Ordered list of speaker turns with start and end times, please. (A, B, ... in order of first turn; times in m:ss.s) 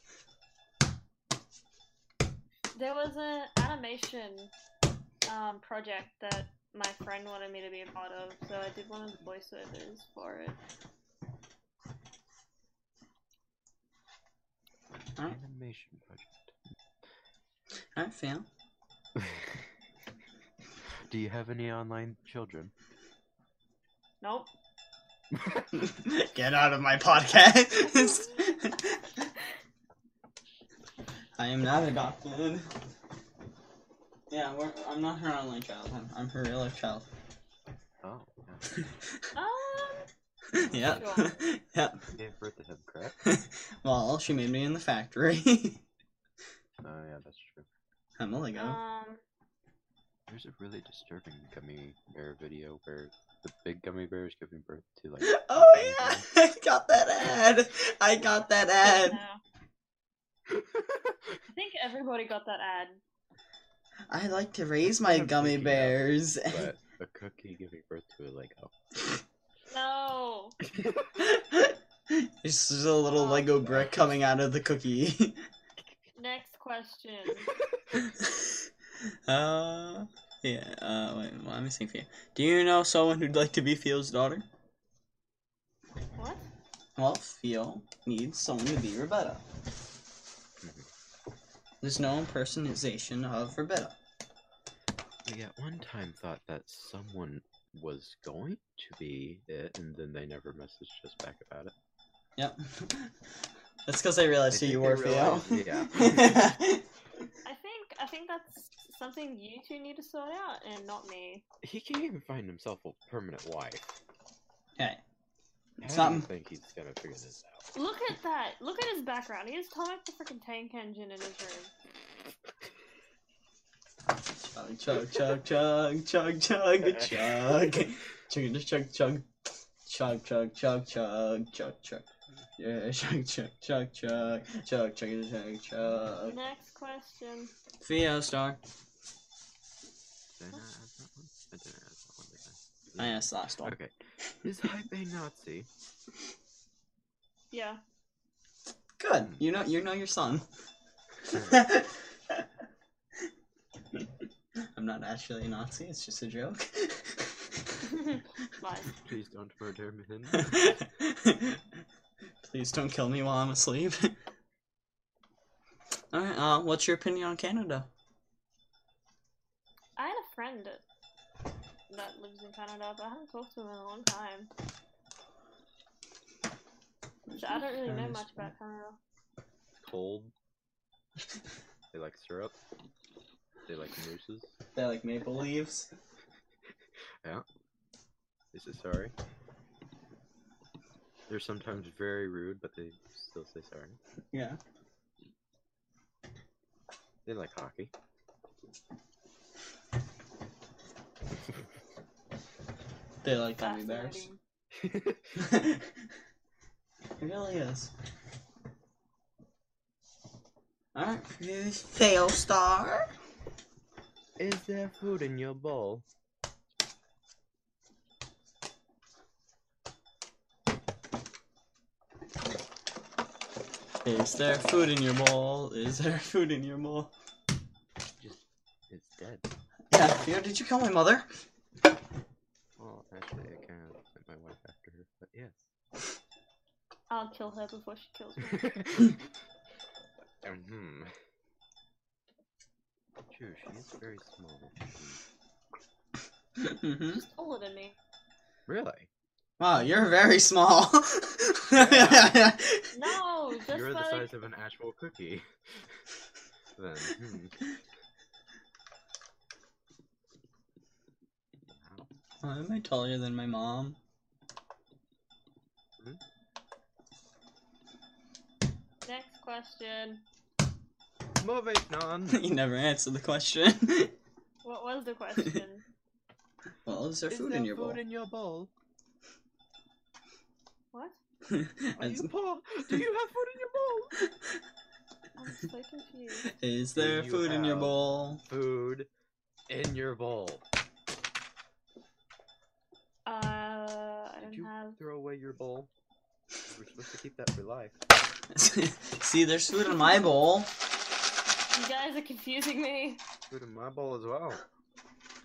0:02.7-0:04.5 A
0:05.2-0:10.6 A
0:15.2-0:16.5 B
0:18.0-0:18.4 C
0:19.2-0:19.5 B
0:21.1-0:22.7 B
0:24.2-0:24.5 A
0:25.3-0:25.7 B
0:25.8-0:29.0 C
0:27.8-0:28.6 A
0:31.4-0:32.7 C
0:34.3-0:37.0 C
0:38.0-0:38.8 B
0:39.3-0:40.1 A
0:40.5-0:42.0 C
0:40.6-0:41.4 B
0:40.8-0:41.4 A
0:42.1-0:43.2 B
0:43.2-0:45.8 C
0:46.8-0:47.7 B
0:48.2-0:48.8 C
0:48.5-0:49.2 A
0:50.3-0:56.2 B
0:55.2-0:59.2 C
0:58.8-0:59.4 A
1:00.5-1:01.1 B
1:01.5-1:03.0 A
1:04.1-1:06.7 C
1:05.0-1:08.7 B
1:09.7-1:10.6 A
1:10.6-1:11.1 B
1:11.2-1:15.4 C
1:13.1-1:13.5 A
1:13.6-1:14.0 B
1:16.2-1:17.5 A
1:18.2-1:18.5 C
1:19.3-1:24.4 C
1:26.2-1:26.4 A
1:27.0-1:29.4 C
1:30.6-1:30.9 B
1:31.8-1:33.9 C
1:35.2-1:41.7 B
1:42.4-1:43.1 C
1:43.8-1:46.8 C
1:44.5-1:46.5 B
1:47.4-1:51.4 A
1:51.6-1:53.9 B
1:55.8-1:57.6 B
1:55.8-1:56.3 C
1:57.7-2:01.7 A
2:04.3-2:09.2 C
2:07.0-2:07.5 B
2:09.8-2:16.4 C
2:16.2-2:17.5 A
2:17.8-2:18.6 C
2:20.4-2:25.7 B
2:23.0-2:23.7 C
2:27.5-2:27.8 A
2:29.0-2:30.4 C
2:31.3-2:31.6 B
2:31.4-2:32.4 C
2:34.7-2:37.5 C
2:37.8-2:38.9 A
2:39.0-2:40.8 B
2:40.4-2:41.6 C
2:42.4-2:44.1 C
2:46.1-2:47.9 C
2:50.0-2:50.8 A
2:51.9-2:54.5 A
2:57.3-2:58.4 C
2:57.4-2:59.0 A
2:59.8-3:00.3 B
3:01.9-3:02.6 B
3:03.6-3:04.6 B
3:04.7-3:05.9 C
3:08.5-3:09.1 B
3:11.3-3:14.0 B
3:14.3-3:14.6 C
3:17.2-3:17.9 B
3:23.2-3:24.3 C
3:23.6-3:24.4 A
3:24.7-3:25.4 B
3:25.4-3:25.9 C
3:27.2-3:27.9 C
3:30.9-3:33.1 C
3:34.4-3:36.0 B
3:44.0-3:47.1 C
3:48.2-3:49.5 B
3:49.9-3:51.3 C
3:52.8-3:55.7 B
3:57.1-3:58.8 A
3:58.5-3:59.2 B
4:00.4-4:01.1 B
4:03.3-4:05.2 B
4:06.6-4:07.2 C
4:07.1-4:08.0 A
4:08.7-4:09.1 B
4:09.6-4:12.9 C
4:11.7-4:12.4 B
4:12.9-4:14.3 A
4:13.7-4:15.5 B
4:16.8-4:17.6 B
4:21.7-4:22.1 B
4:22.4-4:24.0 C
4:29.0-4:30.2 A
4:31.4-4:32.4 B
4:32.3-4:34.1 C
4:34.6-4:35.8 A
4:36.8-4:38.0 C
4:37.3-4:38.7 B
4:40.9-4:41.2 A
4:41.5-4:42.3 C
4:42.0-4:44.2 B
4:45.4-4:46.5 A
4:46.5-4:48.4 C
4:46.9-4:49.1 B
4:49.7-4:50.6 B
4:53.2-4:55.0 A
4:54.4-4:55.9 B
4:56.6-4:58.0 B
4:58.5-5:00.7 C
5:01.7-5:03.2 A
5:03.5-5:04.6 B